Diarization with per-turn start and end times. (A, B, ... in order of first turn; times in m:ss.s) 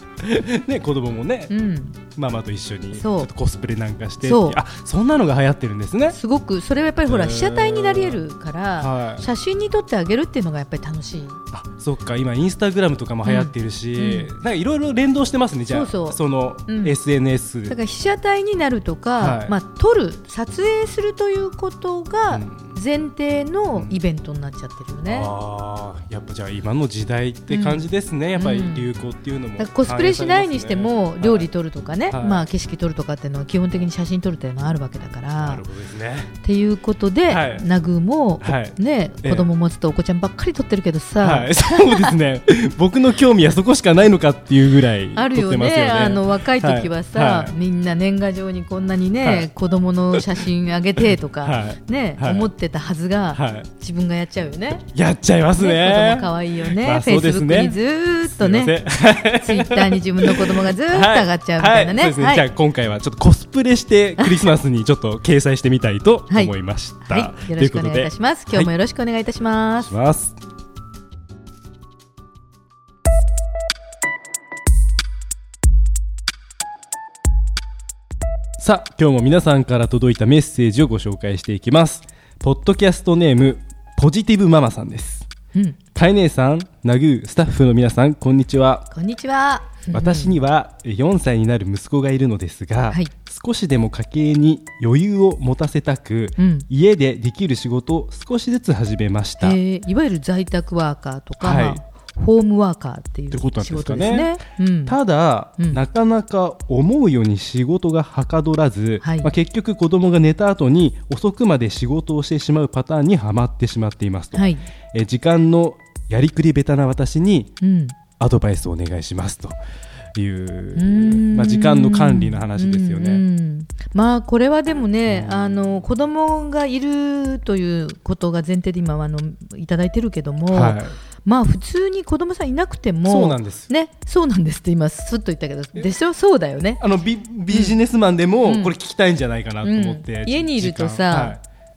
0:00.2-0:01.5 A
0:01.5-0:02.0 B
0:02.2-0:06.2 A
0:02.9-0:03.3 B
0:04.2-0:04.6 B
0:06.1-0:11.4 B
0:07.1-0:08.2 A
0:08.8-0:09.3 A
0:11.5-0:17.8 A
0:13.2-0:14.3 B
0:15.7-0:17.0 B
0:17.7-0:25.3 B
0:19.2-0:19.5 A
0:22.3-0:22.8 A
0:23.7-0:24.0 A
0:25.1-0:31.5 A
0:27.5-0:28.9 B
0:29.6-0:35.6 B
0:32.1-0:32.5 A
0:35.4-0:36.3 A
0:36.4-0:42.2 B
0:37.3-0:37.7 A
0:38.4-0:39.5 A
0:41.2-0:47.5 A
0:45.2-0:54.9 B
0:51.4-0:52.5 A
0:53.4-0:53.7 A
0:54.9-1:08.7 A
0:55.6-1:02.4 B
1:04.2-1:04.5 B
1:06.3-1:09.9 B
1:09.8-1:10.4 A
1:18.6-1:25.3 A
1:26.0-1:28.8 A
1:28.9-1:30.4 B
1:29.9-1:39.6 A
1:36.4-1:36.7 B
1:39.4-1:45.0 B
1:41.4-1:41.8 A
1:43.3-1:57.5 A
1:49.0-1:49.3 B
1:54.3-1:54.6 B
1:57.6-1:58.0 B
1:58.2-1:59.6 A
2:00.2-2:03.2 A
2:00.8-2:16.8 B
2:05.1-2:05.8 A
2:10.5-2:11.0 A
2:13.1-2:13.7 A
2:16.8-2:21.4 A
2:17.5-2:17.8 B
2:18.4-2:18.8 B
2:19.6-2:21.4 B